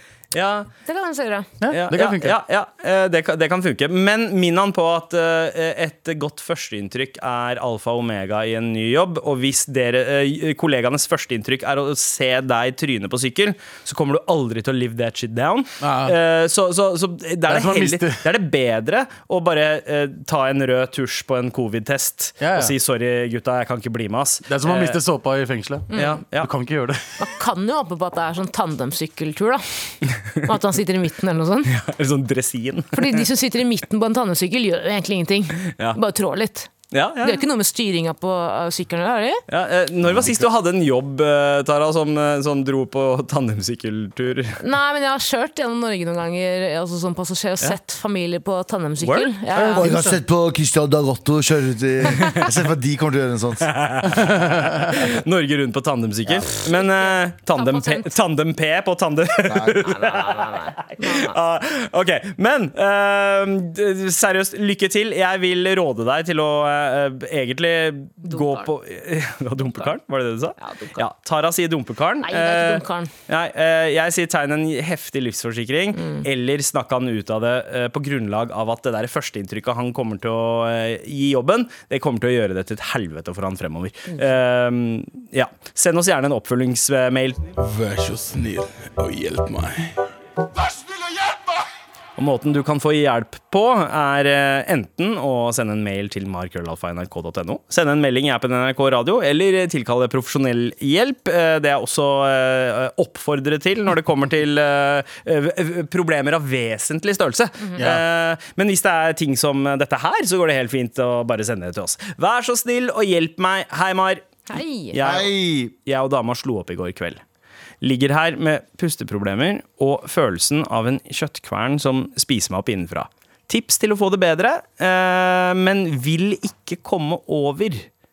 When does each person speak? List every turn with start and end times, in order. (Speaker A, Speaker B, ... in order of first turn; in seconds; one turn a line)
Speaker A: 0.3-0.7
Speaker B: 0.8-1.5
Speaker C: 1.6-2.4
Speaker A: 1.7-25.0
Speaker C: 15.8-16.1
Speaker C: 17.5-18.2
Speaker C: 22.4-22.7
Speaker C: 24.5-27.0
Speaker B: 25.9-26.2
Speaker A: 25.9-26.5
Speaker B: 27.2-31.7
Speaker A: 31.6-33.3
Speaker B: 32.9-39.4
Speaker A: 36.9-37.4
Speaker A: 39.5-44.6
Speaker B: 44.6-49.9
Speaker A: 49.0-49.3
Speaker D: 49.6-53.7
Speaker C: 49.8-50.1
Speaker A: 53.6-87.4
Speaker B: 56.6-58.1
Speaker D: 59.5-59.9
Speaker B: 59.9-61.4
Speaker B: 68.2-68.7
Speaker B: 70.6-71.0
Speaker B: 72.2-73.1
Speaker B: 75.9-76.2
Speaker E: 87.6-90.0
Speaker A: 92.2-114.2
Speaker C: 107.8-108.0
Speaker B: 114.5-115.0
Speaker A: 114.9-117.2
Speaker D: 115.0-115.7
Speaker A: 117.8-127.9